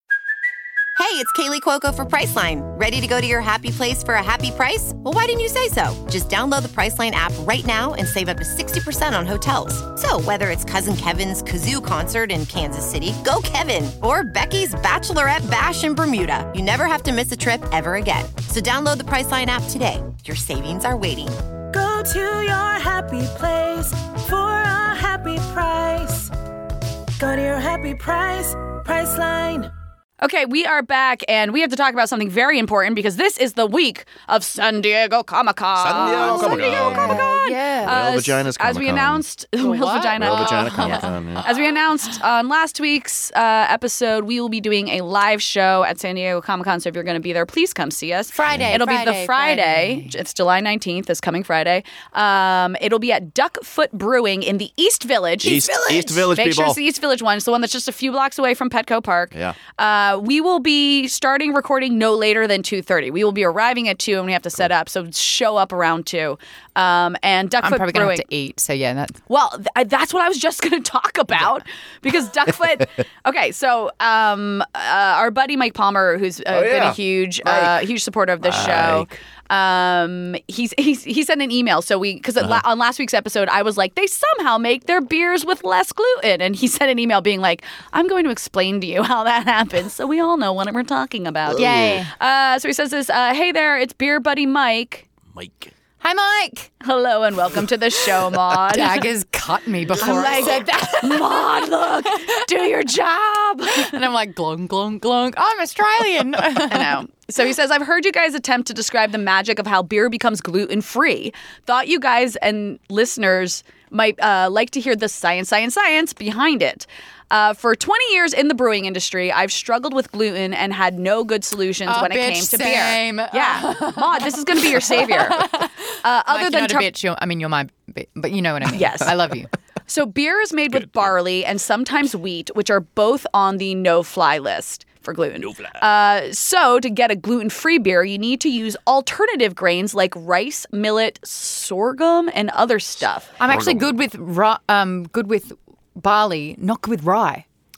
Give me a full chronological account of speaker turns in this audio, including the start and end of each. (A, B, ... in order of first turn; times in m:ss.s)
0:01.0-0:21.4 A
0:21.7-0:26.3 B
0:27.2-0:29.7 B
0:30.2-1:08.2 C
0:35.8-0:39.2 D
0:36.0-0:38.0 E
0:39.6-0:41.6 E
0:40.2-0:41.5 D
0:48.3-0:50.1 E
0:48.5-0:48.8 D
0:55.4-0:56.8 D
0:59.3-0:59.6 D
1:07.6-1:09.2 E
1:09.3-1:35.1 C
1:16.5-1:17.8 D
1:18.4-1:19.2 D
1:31.4-1:32.0 D
1:31.6-1:32.1 E
1:35.3-1:35.7 D
1:36.0-1:36.7 E
1:36.8-1:39.1 C
1:38.7-1:42.4 E
1:40.0-1:44.0 C
1:43.8-1:47.0 E
1:46.6-2:06.9 C
2:01.8-2:05.7 E
2:06.3-2:09.5 E
2:08.7-2:09.1 C
2:09.9-2:23.3 C
2:10.7-2:11.1 D
2:15.4-2:15.8 D
2:23.4-2:27.4 E
2:23.5-2:23.9 D